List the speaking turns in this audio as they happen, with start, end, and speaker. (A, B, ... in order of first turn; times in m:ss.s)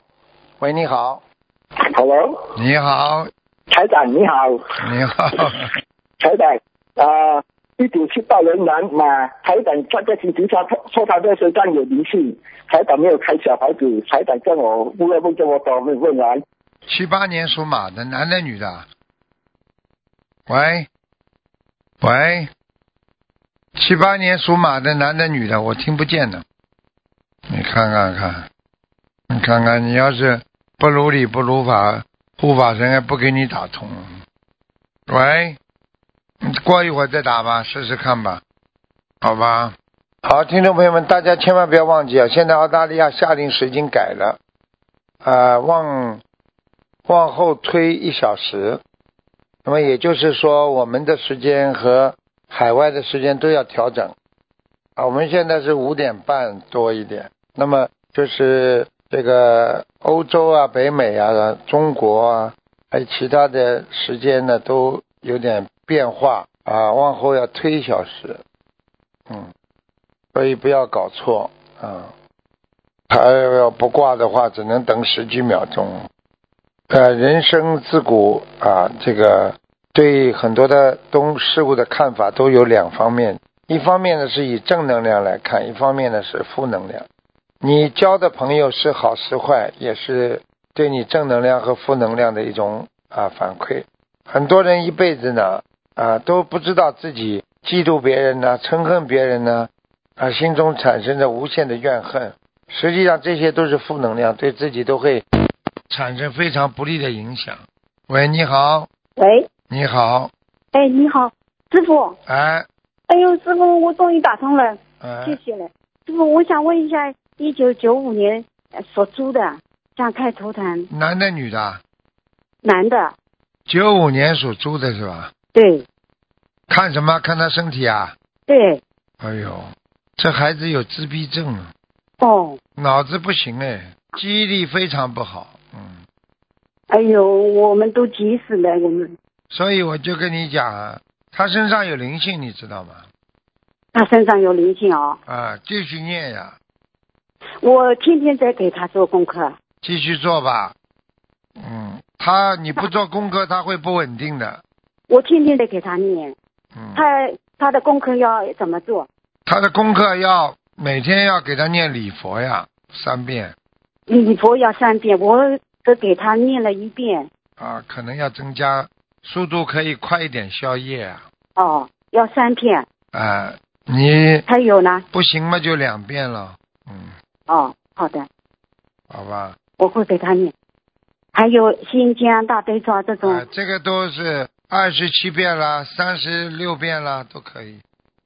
0:00.6-0:01.2 A
0:01.9-0:02.5 B
0:02.6-0:03.3 A
0:03.7-0:04.7 B
0:04.8-0:05.7 A
0:06.2-0:16.4 B
0:16.9-0:18.8 A
0:20.5-0:20.9 A
0:22.0-0:22.5 A
0:23.8-0:26.4 A
0:27.5-0:28.4 A
0:29.3-0:34.2 A
0:35.1-0:35.6 A
0:36.4-0:38.4 A
0:39.2-0:44.4 A
0:45.2-0:46.2 A
0:47.1-0:48.8 A
0:49.6-0:54.1 A
0:55.0-1:08.4 A
1:10.3-1:12.1 A
1:13.1-1:16.1 A
1:16.9-1:27.1 A
1:27.6-1:45.2 A
1:45.9-1:48.9 A
1:49.2-1:49.5 C
1:49.7-1:50.3 A
1:50.7-1:52.2 C
1:52.3-1:52.7 A
1:53.1-2:00.9 C
1:55.0-1:55.4 A
2:00.9-2:01.8 A
2:02.6-2:03.1 C
2:03.7-2:05.3 A
2:05.5-2:05.8 C
2:06.7-2:08.1 A
2:08.5-2:08.8 C
2:09.2-2:11.7 A
2:12.2-2:12.6 C
2:12.8-2:16.0 A
2:16.9-2:19.1 C
2:19.5-2:23.1 A
2:23.9-2:25.2 C
2:25.2-2:26.6 A
2:27.6-2:29.6 C
2:29.8-2:30.7 A
2:31.6-2:34.6 A
2:35.1-2:36.4 C
2:36.7-2:37.0 A
2:36.9-2:39.1 C
2:39.4-2:43.5 A
2:44.1-2:47.3 C
2:47.6-2:51.2 A
2:51.6-2:52.8 C
2:53.1-2:54.4 A
2:54.4-2:55.0 C
2:55.1-2:57.1 A
2:57.5-2:58.3 C
2:59.1-2:59.6 A
2:59.8-3:00.5 C
3:01.3-3:03.4 C
3:03.2-3:07.8 A